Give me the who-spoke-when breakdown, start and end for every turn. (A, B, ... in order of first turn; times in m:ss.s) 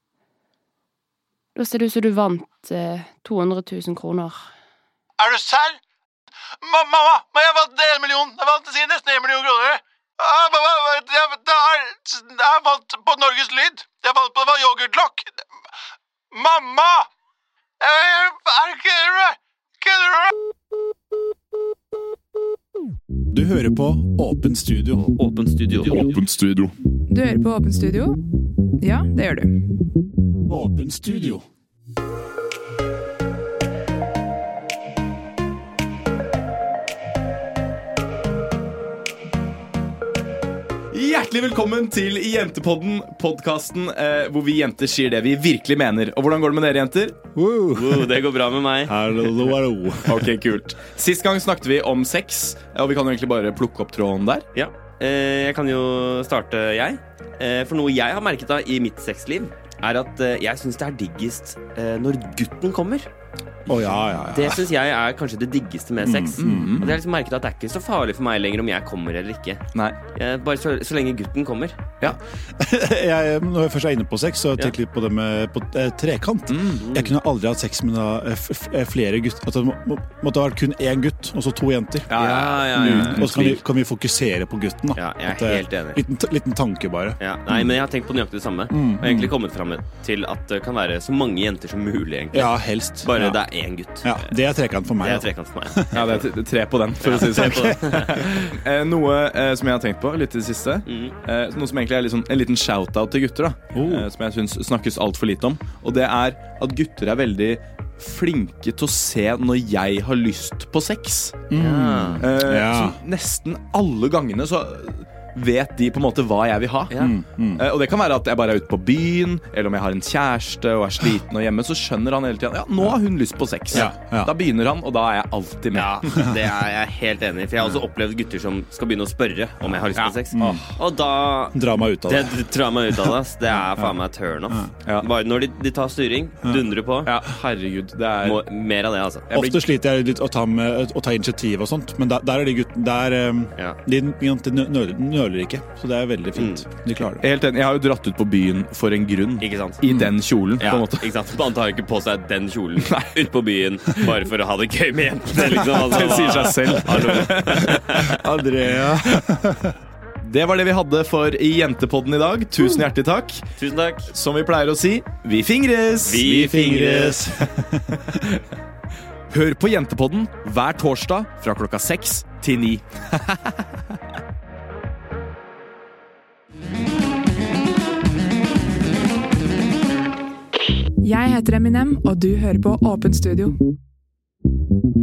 0:01.5-0:04.4 A
0:05.2-0:05.8 B
0:06.6-0:15.4 B
0:16.3-0:17.1 B
0:17.8-0:20.3 B
0:23.3-0:25.0 C
0:24.9-0:26.2 D
0:25.9-0:26.6 E
0:27.1-0:28.2 F
0:28.8-0:29.5 F
0:30.5-0:31.4 C
0:40.9-0:47.2 E
0:47.3-0:48.2 C
0:47.7-0:48.9 D
0:48.8-0:50.3 C
0:50.0-0:54.5 E
0:54.5-1:03.1 D
1:03.7-1:04.7 C
1:04.3-1:11.8 D
1:06.0-1:07.0 C
1:06.3-1:07.0 E
1:12.6-1:27.7 C
1:16.5-1:16.8 E
1:16.8-1:17.1 D
1:22.1-1:23.6 E
1:22.2-1:23.5 D
1:24.9-1:26.0 D
1:27.2-1:34.3 D
1:28.7-1:29.3 C
1:32.3-1:33.4 C
1:34.0-1:36.0 C
1:35.0-1:36.2 D
1:35.9-1:51.4 E
1:37.0-1:38.1 D
1:37.4-1:38.0 C
1:40.8-1:41.1 D
1:43.7-1:44.0 C
1:51.5-1:53.0 C
1:51.5-1:52.2 D
1:52.2-2:06.2 E
1:57.0-1:57.6 C
2:03.7-2:04.3 C
2:05.7-2:17.1 D
2:09.6-2:10.2 E
2:10.3-2:10.7 C
2:11.5-2:13.1 C
2:17.0-2:18.4 E
2:18.2-2:19.3 D
2:19.3-2:19.6 E
2:19.3-2:27.2 C
2:26.4-2:26.6 D
2:27.1-2:31.1 E
2:29.4-2:29.8 D
2:30.6-2:38.1 D
2:32.8-2:33.1 E
2:35.5-2:37.8 E
2:38.0-2:39.7 C
2:40.2-2:43.4 E
2:43.6-2:44.1 D
2:44.1-2:47.1 E
2:46.0-2:47.2 D
2:46.4-2:48.0 C
2:49.3-2:53.5 E
3:01.0-3:03.6 F